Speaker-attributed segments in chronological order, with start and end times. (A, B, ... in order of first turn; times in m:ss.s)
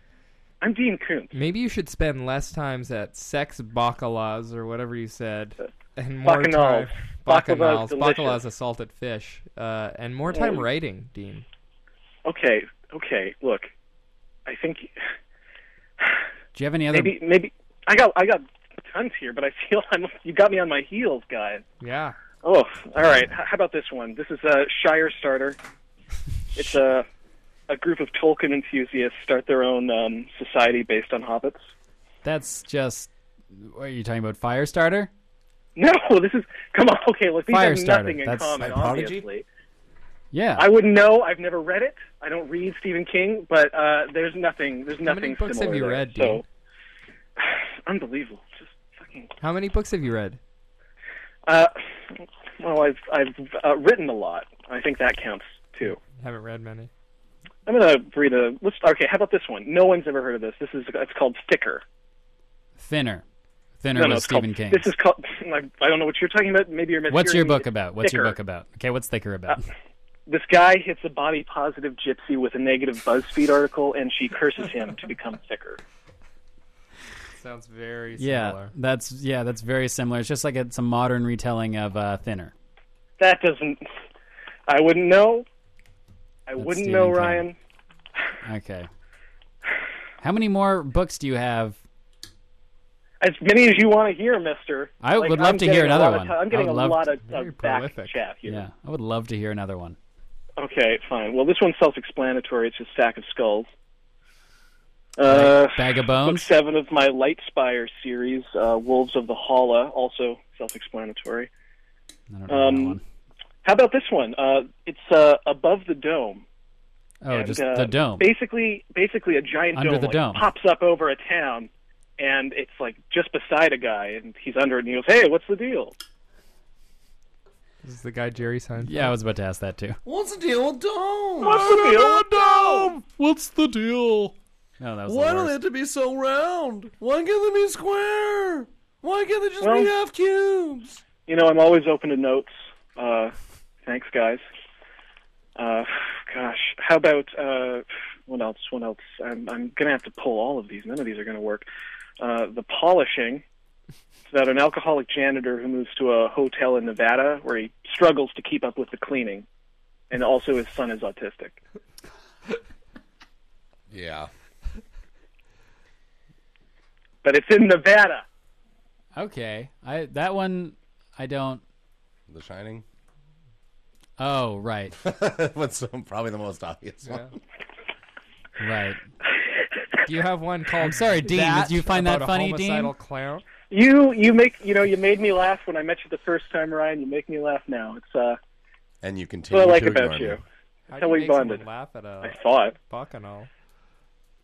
0:00.6-0:01.3 A
0:01.3-0:11.4 B
0:06.2-0:08.4 A
0:10.3-0:10.6 A
0:12.3-0:13.7 A
0:14.5-0:14.9 A
0:16.0-0:16.2 A
0:16.6-0:17.2 C
0:16.9-0:21.6 A
0:21.8-0:22.2 B
0:22.4-0:25.6 A
0:26.6-0:27.1 A
0:27.7-0:31.6 A
0:32.2-0:35.1 C
0:35.8-0:39.4 A
0:37.5-0:39.2 C
0:38.7-0:39.2 D
0:40.3-0:40.7 C
0:40.6-0:46.4 A
0:45.0-0:46.4 B
0:47.4-0:49.3 A
0:49.4-0:50.4 B
0:51.5-0:56.0 A
0:55.9-0:56.9 B
0:57.7-1:01.8 A
1:02.8-1:03.2 C
1:03.8-1:04.9 C
1:04.0-1:08.4 A
1:07.1-1:09.7 C
1:10.3-1:15.8 A
1:17.4-1:18.7 B
1:18.2-1:22.5 C
1:23.2-1:23.8 A
1:24.7-1:25.4 A
1:26.5-1:27.6 A
1:26.6-1:27.5 C
1:28.4-1:28.9 C
1:30.2-1:31.8 C
1:33.2-1:38.7 A
1:35.0-1:37.1 C
1:37.2-1:38.2 B
1:38.4-1:40.0 C
1:40.6-1:43.7 A
1:45.2-1:51.5 A
1:45.2-1:46.5 C
1:52.3-1:53.0 C
1:52.5-1:53.0 A
1:53.6-1:56.4 A
1:57.2-1:58.3 C
1:57.3-2:05.9 A
1:59.7-2:00.5 C
2:07.8-2:09.2 B
2:08.8-2:10.0 C
2:10.0-2:13.0 D
2:11.4-2:12.9 A
2:11.8-2:15.5 C
2:15.1-2:21.0 D
2:19.6-2:19.9 A
2:21.3-2:23.3 A
2:23.9-2:24.4 A
2:25.6-2:31.7 A
2:32.2-2:33.4 A
2:34.3-2:39.4 A
2:40.1-2:41.6 A
2:43.9-2:44.3 D
2:47.2-2:48.2 A
2:49.2-2:51.6 C
2:52.3-2:52.8 D
2:54.2-2:55.0 C
2:55.0-2:57.3 D
2:57.0-2:57.3 B
2:58.6-2:59.0 C
3:00.1-3:03.4 B
3:00.8-3:02.9 C
3:03.7-3:08.4 A
3:09.0-3:10.4 D
3:09.5-3:10.4 A
3:10.9-3:13.5 B
3:11.0-3:11.7 A
3:12.2-3:12.8 A